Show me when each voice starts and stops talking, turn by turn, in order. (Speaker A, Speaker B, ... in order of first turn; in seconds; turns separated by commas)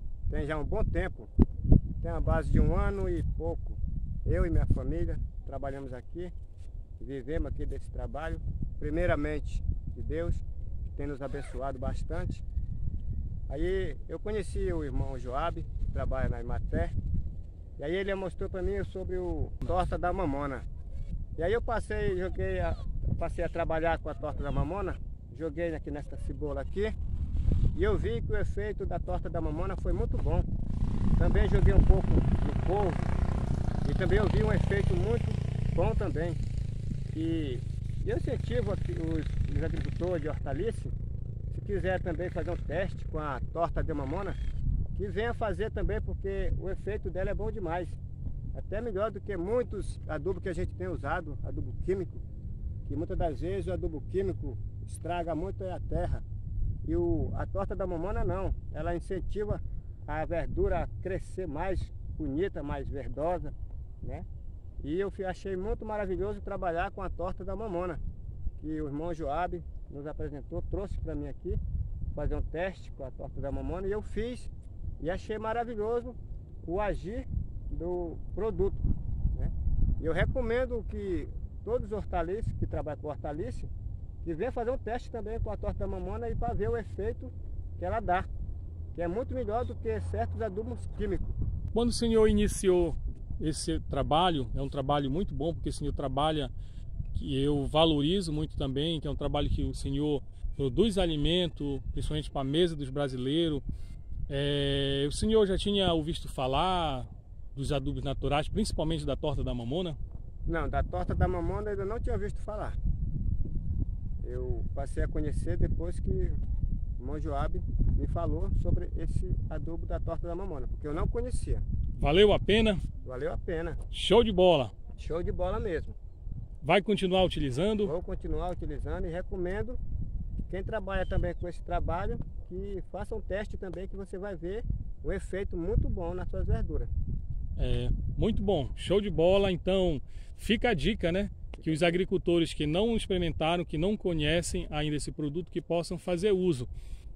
Speaker A: 0.3-1.3, Speaker A: 2.0-6.3, Speaker A: 7.0-12.4, Speaker A: 13.5-16.9, Speaker A: 17.8-20.6, Speaker A: 21.4-26.9, Speaker A: 27.7-30.5, Speaker A: 31.2-33.1, Speaker A: 33.8-36.4, Speaker A: 37.1-40.9, Speaker A: 41.5-44.4, Speaker A: 44.9-48.0, Speaker A: 48.5-52.2, Speaker A: 52.9-56.2, Speaker A: 56.9-64.3, Speaker A: 64.8-68.0, Speaker A: 68.6-71.6, Speaker A: 72.1-83.7, Speaker A: 84.2-88.3, Speaker A: 88.9-91.3, Speaker B: 91.7-96.5, Speaker B: 97.1-103.6, Speaker B: 104.3-110.0, Speaker A: 110.5-112.8, Speaker A: 114.2-116.4, Speaker A: 117.0-121.6, Speaker B: 122.0-122.8, Speaker A: 123.0-123.8, Speaker B: 123.9-124.7, Speaker A: 125.0-126.0, Speaker B: 126.6-127.9, Speaker A: 127.8-129.8, Speaker A: 130.5-136.9, Speaker B: 137.6-146.7, Speaker A: 141.6-142.0